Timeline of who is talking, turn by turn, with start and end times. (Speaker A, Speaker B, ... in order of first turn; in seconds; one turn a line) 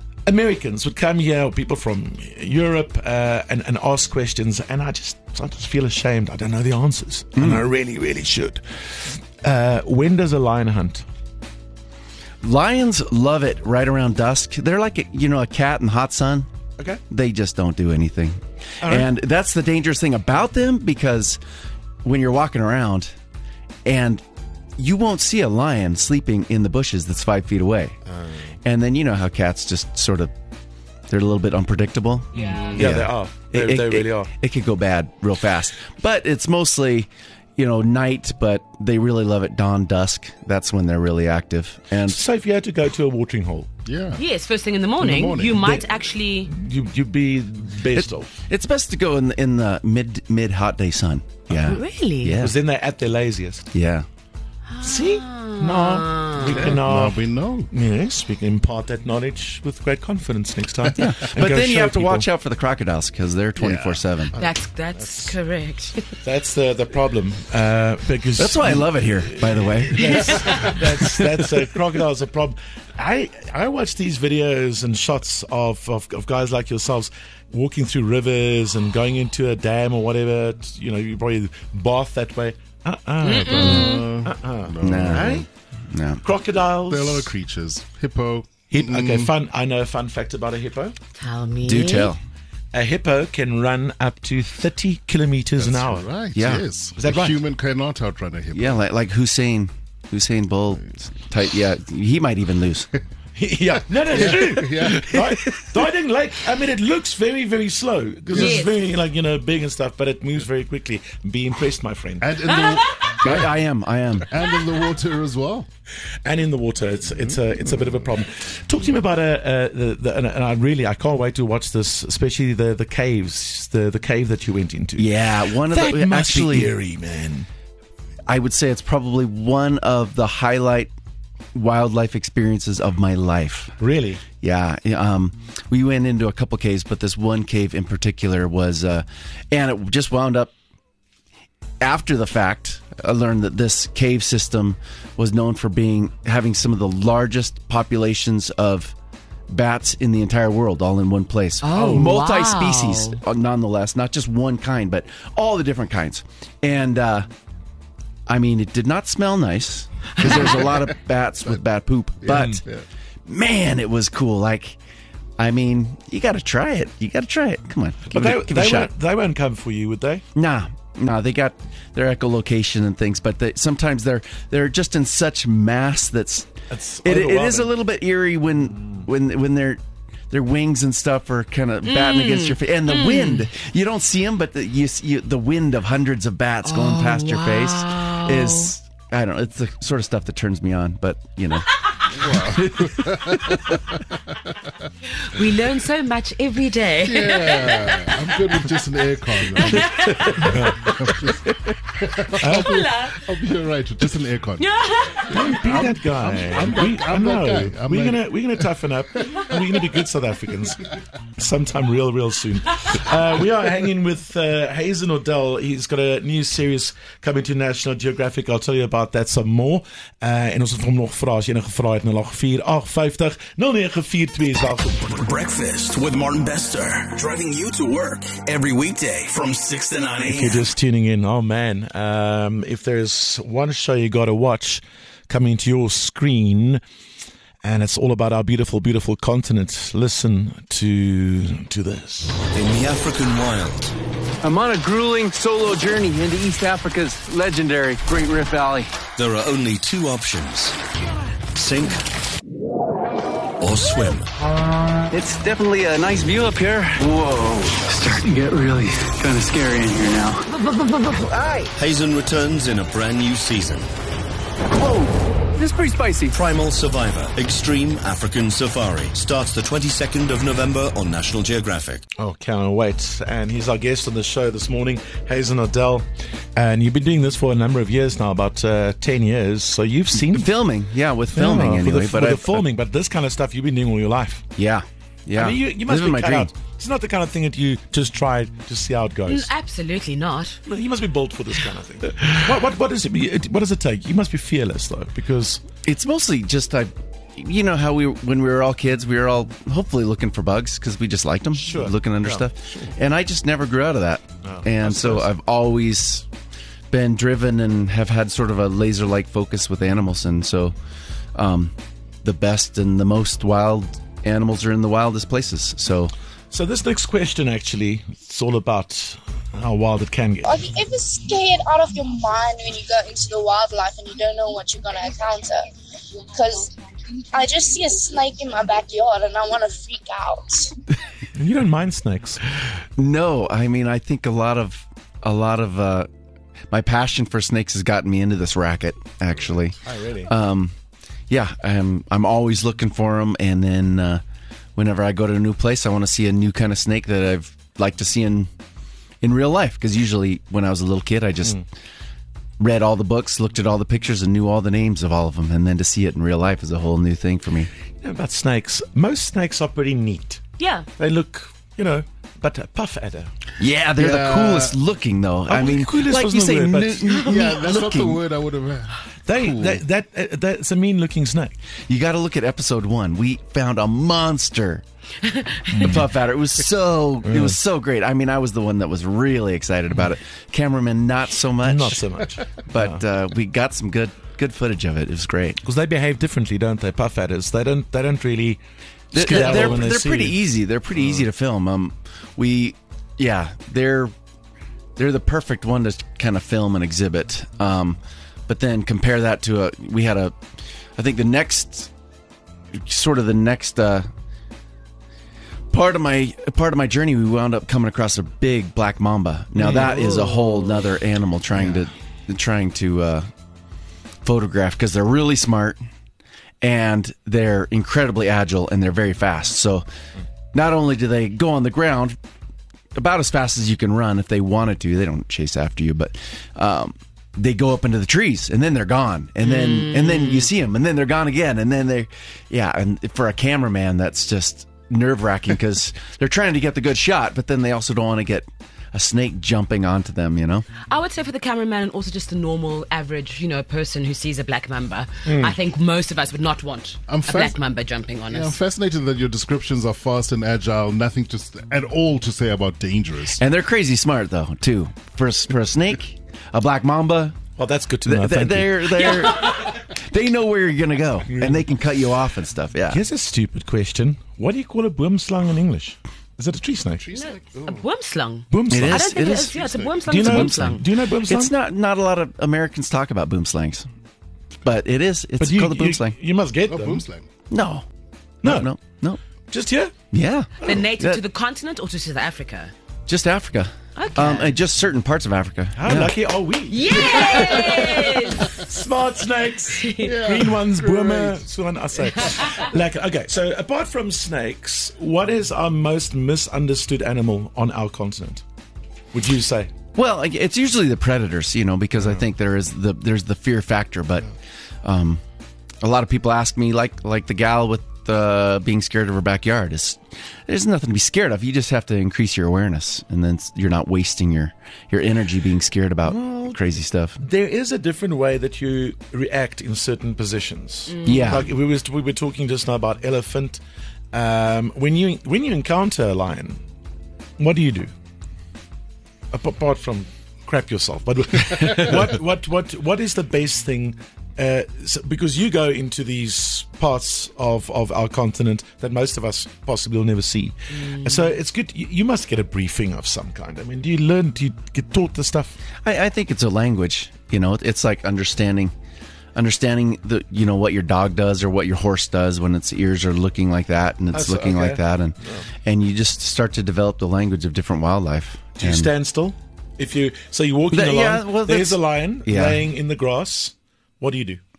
Speaker A: 0.2-11.0
Speaker B: 7.3-7.6
Speaker B: 12.4-16.5
Speaker B: 17.1-21.4
Speaker A: 18.8-19.1
Speaker B: 22.0-23.1
Speaker B: 23.8-24.2
Speaker B: 24.8-28.0
Speaker A: 28.1-28.4
Speaker B: 28.6-30.3
Speaker B: 31.1-42.2
Speaker C: 32.3-32.8
Speaker A: 32.7-34.3
Speaker A: 42.0-43.7
Speaker D: 43.9-44.2
Speaker C: 44.2-46.5
Speaker D: 45.0-45.6
Speaker A: 45.5-48.3
Speaker B: 47.9-52.5
Speaker C: 51.6-52.4
Speaker A: 52.4-53.6
Speaker B: 53.7-54.1
Speaker C: 54.7-56.7
Speaker A: 54.8-62.3
Speaker D: 56.5-57.7
Speaker B: 61.0-64.3
Speaker D: 63.6-64.0
Speaker C: 64.4-66.0
Speaker A: 65.0-65.3
Speaker A: 66.2-85.5
Speaker B: 68.4-70.4
Speaker B: 71.2-71.4
Speaker C: 83.2-84.1
Speaker D: 83.3-85.4
Speaker B: 84.8-86.2
Speaker A: 86.2-87.3
Speaker D: 86.8-89.3
Speaker A: 88.7-91.0
Speaker C: 91.2-92.1
Speaker B: 91.6-92.2
Speaker A: 92.7-96.1
Speaker D: 95.6-98.8
Speaker B: 96.3-96.7
Speaker A: 97.0-97.4
Speaker B: 98.5-102.9
Speaker A: 103.3-112.4
Speaker D: 104.0-105.6
Speaker D: 108.3-108.6
Speaker C: 108.3-108.8
Speaker D: 112.2-113.4
Speaker C: 112.5-113.1
Speaker B: 113.2-114.3
Speaker D: 114.3-115.7
Speaker A: 116.2-127.5
Speaker D: 117.1-118.0
Speaker B: 125.0-126.7
Speaker B: 128.3-130.9
Speaker B: 131.5-133.8
Speaker A: 133.8-134.2
Speaker B: 134.4-140.5
Speaker B: 141.8-148.9
Speaker B: 149.5-157.3
Speaker C: 151.6-153.2
Speaker B: 158.3-162.6
Speaker A: 162.3-162.6
Speaker D: 162.3-162.8
Speaker B: 163.2-164.8
Speaker B: 165.4-168.9
Speaker A: 168.1-170.2
Speaker B: 170.3-176.5
Speaker A: 176.7-177.7
Speaker B: 177.0-193.7
Speaker C: 181.8-183.5
Speaker C: 186.6-188.7
Speaker D: 192.1-194.6
Speaker C: 195.2-198.7
Speaker D: 197.0-201.4
Speaker C: 199.5-201.1
Speaker A: 200.2-200.9
Speaker D: 201.9-204.7
Speaker C: 202.2-203.3
Speaker A: 202.4-202.8
Speaker C: 204.6-205.4
Speaker A: 205.3-225.1
Speaker D: 205.3-208.3
Speaker D: 209.4-209.9
Speaker E: 225.1-230.7
Speaker A: 230.2-236.8
Speaker A: 237.6-242.4
Speaker F: 242.5-243.9
Speaker G: 244.4-248.9
Speaker F: 249.2-250.8
Speaker F: 251.5-252.0
Speaker F: 253.6-254.3
Speaker G: 255.1-260.4
Speaker G: 261.1-261.6
Speaker F: 261.8-263.9
Speaker G: 264.8-266.3
Speaker F: 266.3-272.0
Speaker A: 272.2-280.5
Speaker B: 280.1-282.6
Speaker A: 281.3-284.4
Speaker B: 284.6-286.5
Speaker A: 285.3-289.5
Speaker C: 289.3-290.6
Speaker A: 290.6-295.6
Speaker B: 295.8-306.3
Speaker A: 301.5-302.9
Speaker A: 304.4-305.3
Speaker B: 306.9-310.7
Speaker B: 311.3-316.1
Speaker A: 316.5-320.5
Speaker H: 320.4-325.7
Speaker H: 326.3-326.7
Speaker H: 327.3-330.7
Speaker A: 331.3-332.4
Speaker B: 333.0-336.1
Speaker B: 336.7-340.7
Speaker A: 339.8-340.3
Speaker B: 341.3-344.2
Speaker B: 344.8-348.5
Speaker B: 349.2-351.6
Speaker B: 352.6-357.7
Speaker A: 358.0-360.4
Speaker C: 360.6-360.9
Speaker A: 361.0-363.3
Speaker B: 363.6-368.2
Speaker D: 364.0-364.8
Speaker A: 365.5-367.1
Speaker D: 367.2-369.8
Speaker A: 369.2-371.5
Speaker B: 371.9-374.8
Speaker C: 375.2-375.9
Speaker A: 375.7-376.0
Speaker B: 375.7-382.0
Speaker A: 377.2-377.6
Speaker A: 381.6-383.0
Speaker B: 382.6-385.6
Speaker A: 385.6-388.6
Speaker B: 389.1-394.1
Speaker A: 389.1-390.4
Speaker C: 389.3-389.7
Speaker B: 395.0-400.4
Speaker B: 400.9-401.9
Speaker B: 402.7-404.1
Speaker B: 405.7-413.3
Speaker A: 409.6-410.7
Speaker B: 414.2-415.8
Speaker B: 416.6-419.9
Speaker B: 420.5-422.2
Speaker B: 422.9-440.6
Speaker C: 429.4-430.5
Speaker C: 440.9-448.6
Speaker A: 445.2-445.5
Speaker D: 447.1-447.6
Speaker D: 448.3-453.4
Speaker B: 453.4-457.4
Speaker A: 457.6-459.1
Speaker B: 458.0-463.0
Speaker C: 459.1-459.7
Speaker A: 461.3-461.6
Speaker A: 462.9-467.1
Speaker D: 467.0-467.9
Speaker C: 467.1-470.8
Speaker A: 468.5-469.2
Speaker B: 468.7-469.6
Speaker A: 470.1-471.5
Speaker B: 470.1-473.9
Speaker B: 474.6-476.1
Speaker A: 475.4-477.0
Speaker D: 476.7-477.3
Speaker B: 477.5-477.9
Speaker A: 478.4-478.7
Speaker B: 478.4-479.2
Speaker A: 479.5-479.9
Speaker B: 480.1-481.2
Speaker C: 480.6-482.7
Speaker B: 483.1-486.1
Speaker C: 483.9-484.5
Speaker A: 485.8-498.4
Speaker C: 486.7-488.6
Speaker C: 489.8-490.4
Speaker D: 490.0-491.5
Speaker A: 499.1-499.7
Speaker B: 499.9-504.3
Speaker B: 504.8-505.2
Speaker B: 505.8-517.2
Speaker A: 516.0-516.6
Speaker A: 517.2-523.6
Speaker C: 520.9-521.4
Speaker B: 521.0-521.5
Speaker A: 524.1-526.6
Speaker A: 527.4-527.9
Speaker A: 529.3-545.6
Speaker C: 540.7-541.2
Speaker B: 545.8-548.7
Speaker B: 549.3-558.9
Speaker A: 554.1-555.5
Speaker A: 558.6-564.4
Speaker B: 560.7-562.6